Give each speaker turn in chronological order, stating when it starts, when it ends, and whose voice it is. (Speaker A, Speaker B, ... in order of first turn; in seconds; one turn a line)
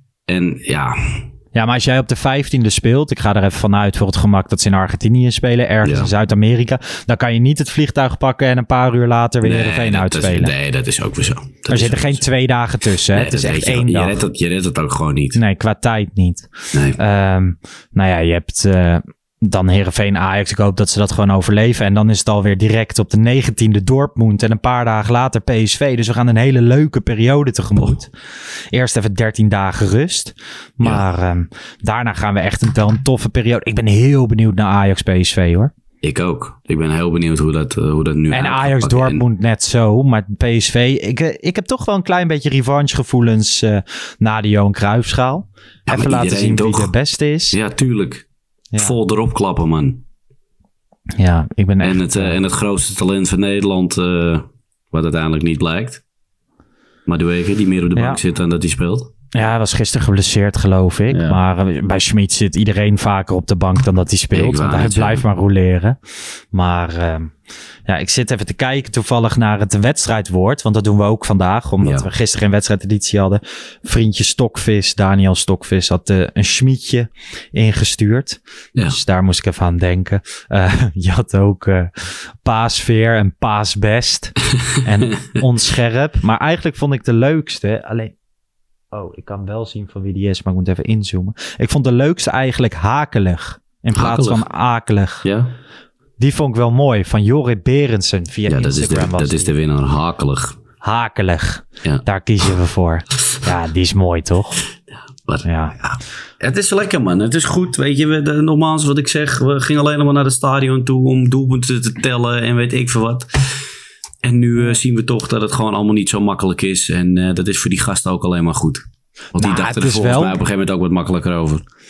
Speaker A: 0.3-1.3
Speaker B: 1.6-10.5
Speaker A: 5.8-6.1
Speaker A: 9.4-12.2
Speaker B: 11.7-14.2
Speaker A: 13.1-15.4
Speaker B: 15.3-28.1
Speaker A: 16.7-17.0
Speaker B: 28.7-35.7
Speaker A: 36.0-39.2
Speaker B: 38.3-47.6
Speaker A: 45.9-46.9
Speaker A: 47.5-50.0
Speaker B: 51.2-52.4
Speaker A: 51.8-56.0
Speaker A: 57.1-59.1
Speaker B: 59.3-66.0
Speaker A: 61.1-61.4
Speaker A: 64.3-65.2
Speaker B: 66.5-67.3
Speaker B: 67.9-88.1
Speaker A: 71.8-72.1
Speaker B: 88.9-95.2
Speaker A: 94.0-94.4
Speaker A: 95.2-95.6
Speaker B: 96.2-99.5
Speaker A: 98.5-100.6
Speaker B: 100.8-104.6
Speaker A: 105.2-113.6
Speaker B: 105.5-105.8
Speaker A: 114.2-121.7
Speaker B: 119.4-120.4